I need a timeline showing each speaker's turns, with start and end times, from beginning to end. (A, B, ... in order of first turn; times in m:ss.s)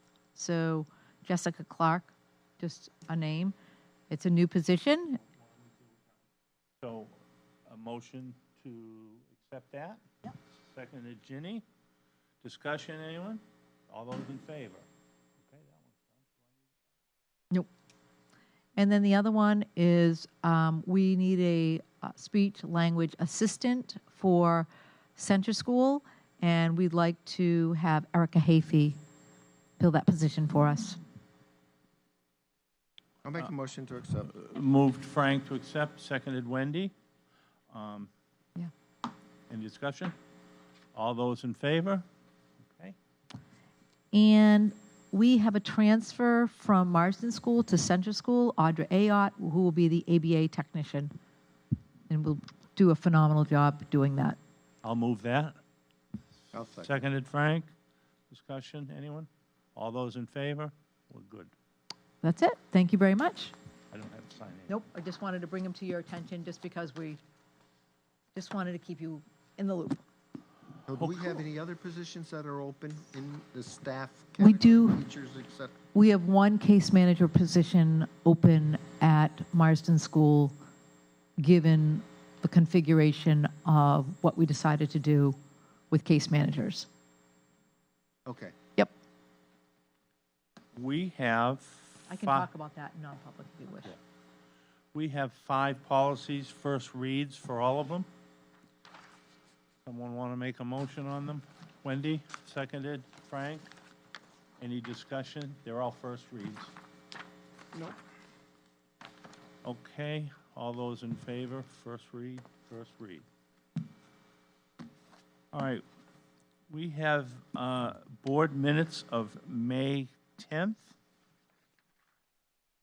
0:00.4-0:03.6 A
0:04.1-0:05.2 A
0:06.8-0:07.1 B
0:07.7-0:10.0 B
0:10.7-0:11.6 B
0:12.4-0:14.9 B
0:15.4-0:16.3 B
0:18.8-0:29.0 A
0:29.8-0:31.0 A
0:33.2-0:34.3 C
0:34.3-0:36.9 B
0:37.7-0:38.1 B
0:39.5-0:40.2 B
0:41.0-0:42.0 B
0:44.1-0:51.1 A
0:52.1-0:54.4 A
0:54.8-0:55.6 B
0:56.5-0:56.9 C
0:56.8-0:57.7 B
0:58.3-1:01.5 B
1:02.2-1:03.5 A
1:03.9-1:04.8 B
1:04.7-1:07.2 A
1:08.4-1:10.0 A
1:10.9-1:15.8 C
1:10.9-1:11.4 B
1:14.4-1:15.0 A
1:15.9-1:20.6 A
1:21.4-1:25.4 A
1:25.9-1:26.9 A
1:28.3-1:28.6 C
1:30.8-1:32.5 B
1:32.1-1:34.0 A
1:34.9-1:38.1 B
1:39.8-1:43.7 B
1:44.6-1:46.7 B
1:49.6-1:53.2 B
1:55.5-1:55.8 B
1:56.7-2:01.0 B